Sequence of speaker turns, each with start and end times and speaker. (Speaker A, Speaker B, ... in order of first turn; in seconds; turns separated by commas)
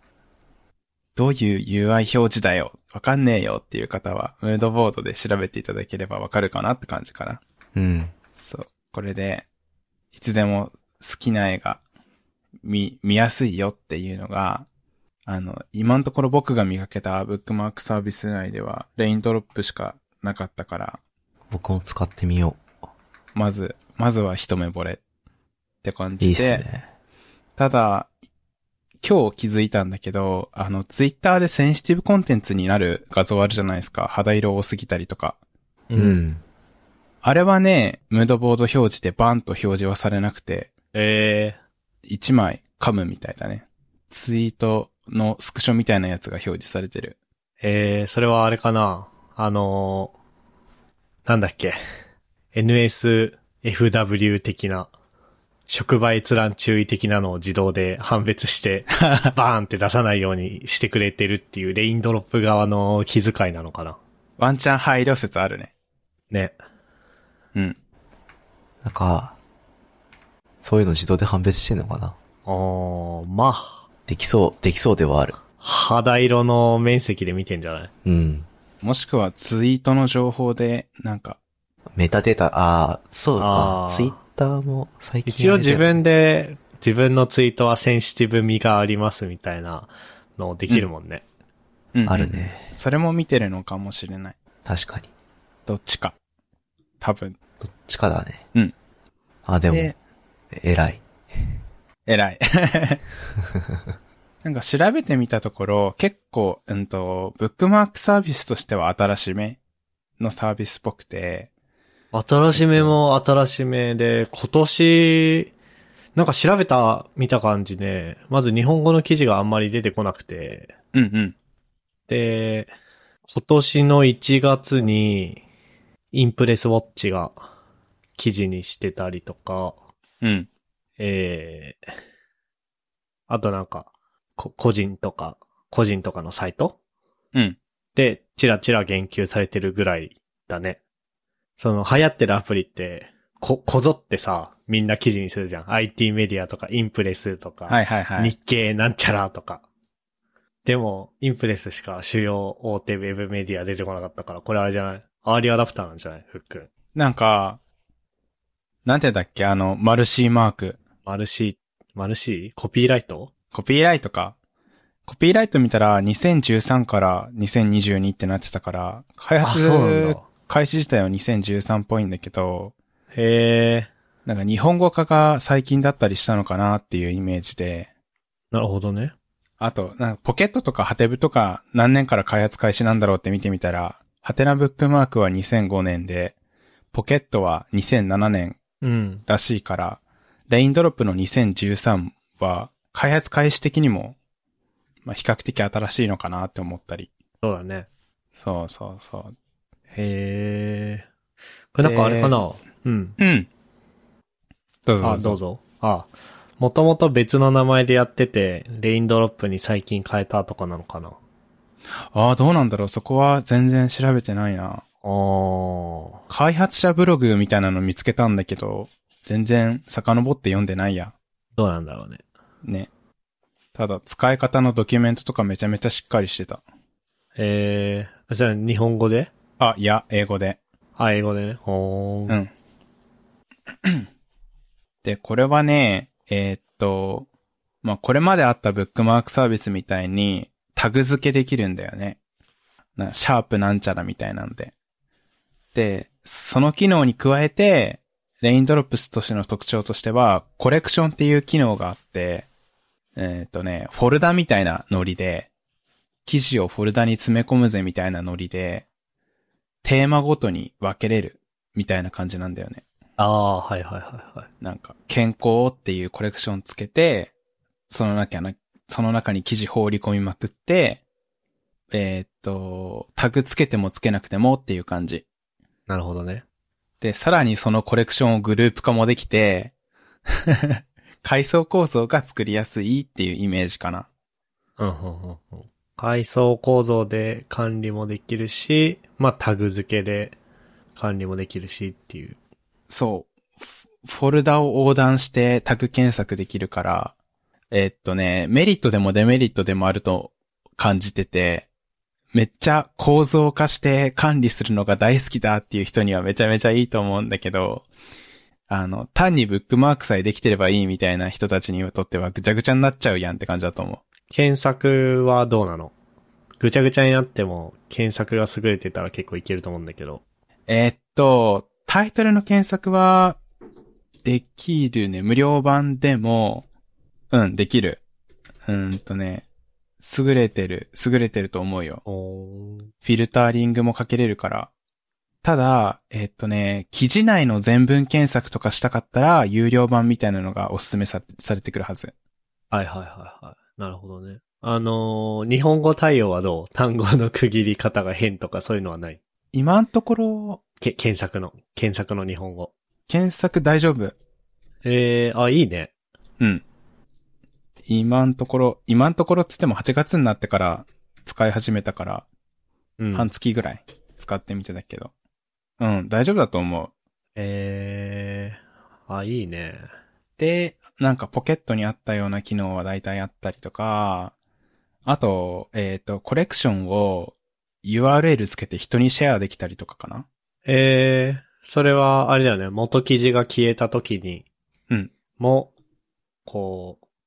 Speaker A: 1.1-7.4, Speaker B: 7.7-8.1, Speaker A: 8.3-9.5, Speaker A: 10.1-11.8, Speaker A: 12.6-14.7, Speaker A: 15.2-21.0, Speaker B: 21.5-22.6, Speaker A: 23.3-25.0, Speaker A: 25.8-26.6, Speaker B: 26.2-26.9, Speaker A: 27.6-28.1, Speaker A: 29.0-35.4, Speaker C: 35.9-36.2, Speaker B: 36.0-36.4, Speaker A: 37.2-40.7, Speaker C: 40.9-41.6, Speaker A: 42.0-47.1, Speaker C: 47.6-50.1, Speaker C: 51.2-51.8, Speaker C: 52.5-54.9, Speaker C: 55.7-64.0, Speaker A: 59.1-59.3, Speaker A: 64.4-65.7, Speaker C: 66.3-66.5, Speaker B: 68.8-69.4, Speaker B: 70.6-72.2, Speaker C: 72.5-73.8, Speaker B: 74.1-75.4, Speaker C: 75.6-77.9, Speaker B: 78.0-78.5, Speaker A: 78.8-81.4, Speaker B: 81.9-86.0, Speaker C: 83.4-84.2, Speaker C: 85.2-91.2, Speaker A: 91.9-94.3, Speaker B: 92.0-92.7, Speaker B: 94.6-95.1, Speaker A: 95.7-96.1, Speaker A: 97.0-97.4, Speaker B: 97.6-98.4, Speaker B: 99.5-100.0, Speaker A: 99.7-99.9, Speaker B: 100.5-101.0, Speaker A: 102.0-103.0, Speaker A: 104.4-109.6, Speaker A: 110.2-111.5, Speaker C: 112.1-115.5, Speaker C: 116.1-120.7, Speaker A: 120.9-121.3, Speaker C: 122.1-122.7, Speaker C: 123.3-125.4, Speaker C: 126.1-127.3, Speaker C: 128.2-129.8, Speaker A: 130.2-130.5, Speaker C: 131.0-131.8, Speaker C: 133.3-136.8, Speaker C: 137.9-140.8, Speaker C: 141.6-149.6, Speaker A: 147.7-148.3, Speaker C: 150.6-156.7, Speaker A: 156.9-157.6, Speaker A: 158.8-160.8, Speaker C: 161.1-163.3, Speaker A: 163.5-164.3, Speaker A: 165.1-172.7, Speaker C: 169.4-170.2, Speaker C: 173.1-173.9, Speaker A: 174.2-177.9, Speaker C: 178.5-179.1, Speaker A: 179.6-186.3, Speaker A: 186.9-188.6, Speaker C: 188.8-189.2, Speaker A: 189.2-194.2, Speaker A: 195.0-197.1, Speaker C: 197.4-197.9, Speaker A: 198.4-199.3, Speaker C: 199.9-201.1, Speaker C: 201.7-203.2, Speaker A: 201.8-202.4, Speaker A: 203.2-203.5, Speaker A: 204.8-205.4, Speaker C: 205.0-211.2, Speaker A: 212.1-214.8, Speaker C: 215.0-216.2, Speaker A: 216.3-221.1, Speaker C: 221.6-222.2, Speaker A: 222.6-222.9, Speaker A: 223.7-226.6, Speaker C: 227.3-229.3, Speaker A: 229.6-230.6, Speaker C: 231.0-232.4, Speaker A: 235.0-237.3, Speaker A: 237.8-242.2, Speaker A: 242.9-244.7, Speaker A: 245.7-252.5, Speaker A: 253.2-255.5, Speaker A: 256.2-258.9, Speaker A: 259.8-262.8, Speaker C: 263.2-264.5, Speaker A: 264.6-267.3, Speaker A: 267.9-271.0, Speaker A: 271.9-275.2, Speaker C: 275.9-276.4, Speaker A: 277.0-279.7, Speaker A: 280.3-284.1, Speaker C: 284.8-290.4, Speaker C: 290.9-292.4, Speaker A: 292.9-293.3, Speaker A: 294.0-297.1, Speaker A: 297.7-301.7, Speaker A: 302.3-307.9, Speaker A: 308.7-314.0, Speaker C: 314.3-315.9, Speaker C: 316.6-320.2, Speaker A: 320.7-323.4, Speaker A: 324.2-326.6, Speaker A: 327.3-328.0, Speaker A: 328.6-329.4, Speaker A: 330.0-332.0, Speaker C: 332.0-332.9, Speaker A: 333.0-334.7, Speaker A: 335.4-342.1, Speaker C: 342.7-349.2, Speaker A: 349.5-350.6, Speaker C: 350.8-352.7, Speaker A: 353.1-354.1, Speaker C: 354.8-355.9, Speaker A: 357.9-362.2, Speaker C: 363.0-363.3, Speaker A: 363.1-365.1, Speaker A: 365.8-366.9, Speaker C: 367.4-369.9, Speaker A: 370.4-374.3, Speaker A: 375.1-380.3, Speaker C: 380.6-384.4, Speaker C: 385.4-385.7, Speaker C: 386.4-387.0